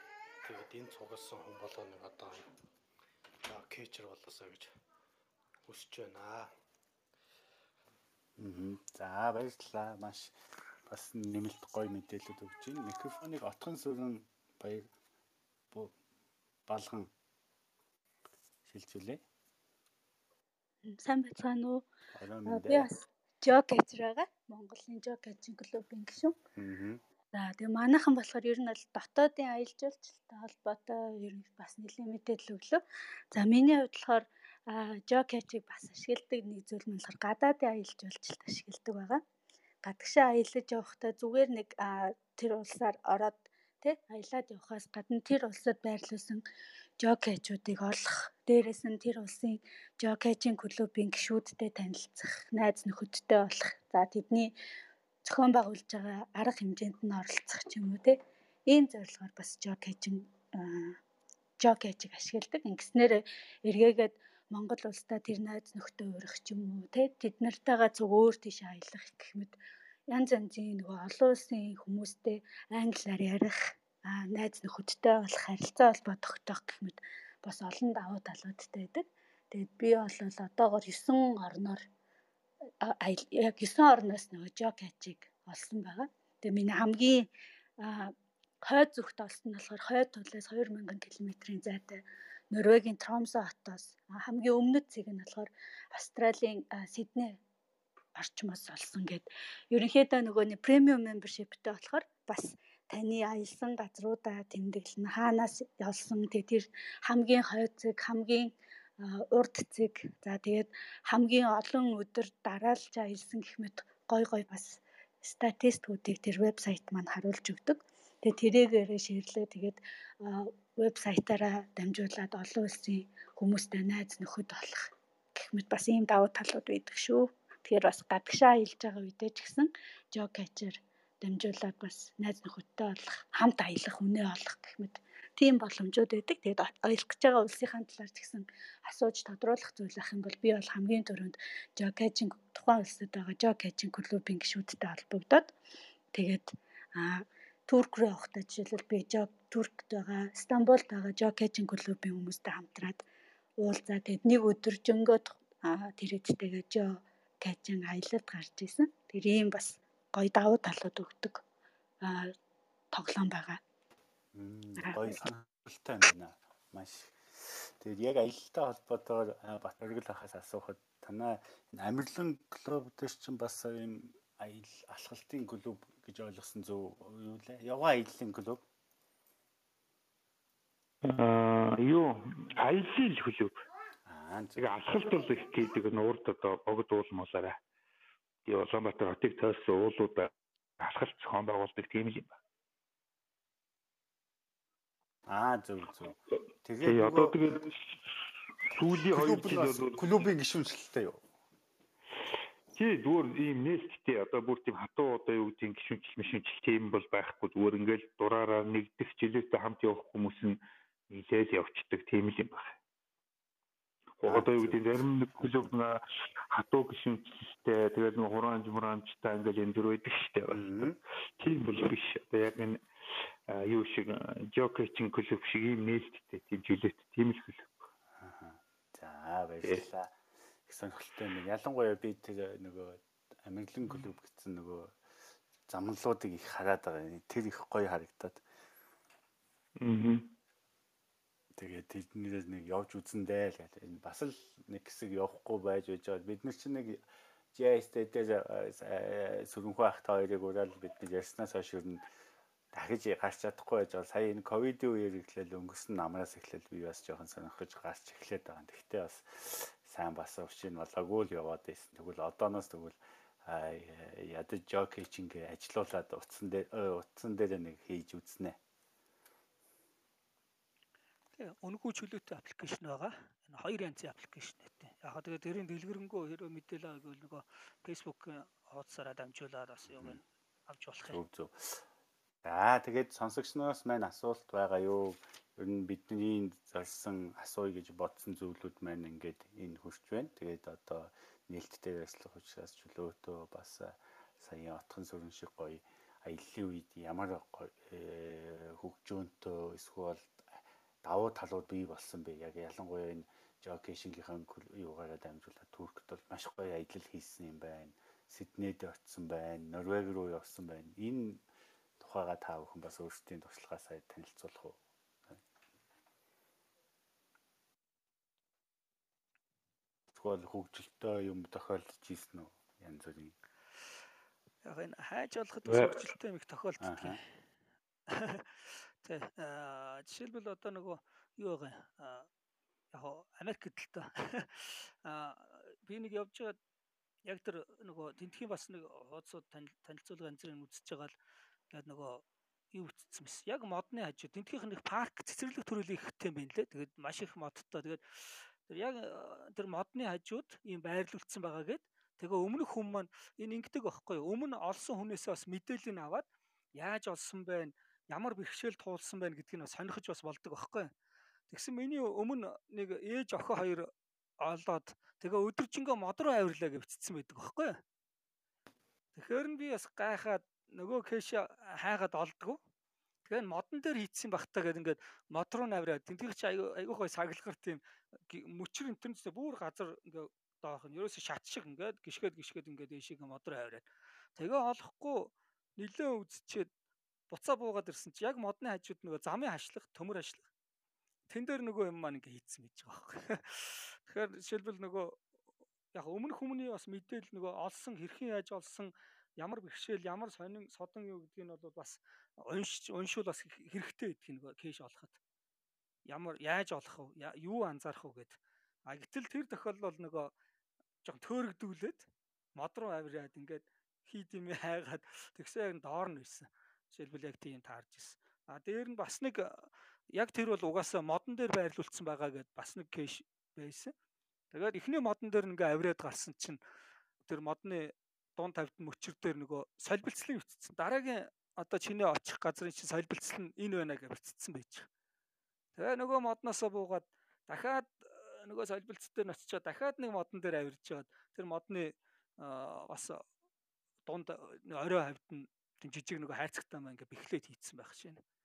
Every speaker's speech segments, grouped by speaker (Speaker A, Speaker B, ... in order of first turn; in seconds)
Speaker A: 0.4-2.5, 3.4-4.7, 5.7-6.5
Speaker B: 8.4-10.3, 10.9-14.9, 16.7-17.1, 18.7-19.2, 22.1-22.9, 26.5-27.0, 164.3-178.6, 184.1-184.7, 195.3-197.3, 199.1-201.2, 214.3-215.7, 220.5-221.0, 228.2-230.1, 230.7-234.9, 235.7-238.4, 241.6-247.0, 247.5-252.0, 252.7-268.6, 279.9-280.2, 281.1-281.8, 282.4-300.4, 301.0-311.4, 312.0-315.4, 320.1-323.4, 326.8-327.2
Speaker C: 20.9-21.9, 22.4-26.4, 27.3-32.8, 33.3-39.2, 39.8-46.4, 47.0-54.5, 55.2-61.0, 61.6-69.5, 70.1-81.8, 82.8-87.3, 87.8-97.4, 98.2-145.5, 146.1-153.0, 153.6-161.4, 162.0-162.3, 162.9-163.6, 164.8-165.2
Speaker D: 181.0-183.6, 184.6-187.6, 188.4-192.4, 196.8-198.0, 198.6-200.3, 202.7-210.6, 211.1-212.7, 214.2-216.0, 216.5-222.8, 223.5-227.7, 239.8-240.3, 325.7-326.0
Speaker E: 271.4-281.2, 324.6-327.2, 328.1-332.3, 332.9-336.6, 337.2-341.2, 341.7-360.9, 361.5-363.9, 364.4-367.8, 369.1-372.6, 373.2-386.7, 387.3-390.4, 391.3-395.2, 395.9-405.2, 406.1-410.3, 411.0-423.9, 424.5-426.6, 427.2-434.9, 435.8-443.2, 444.1-448.2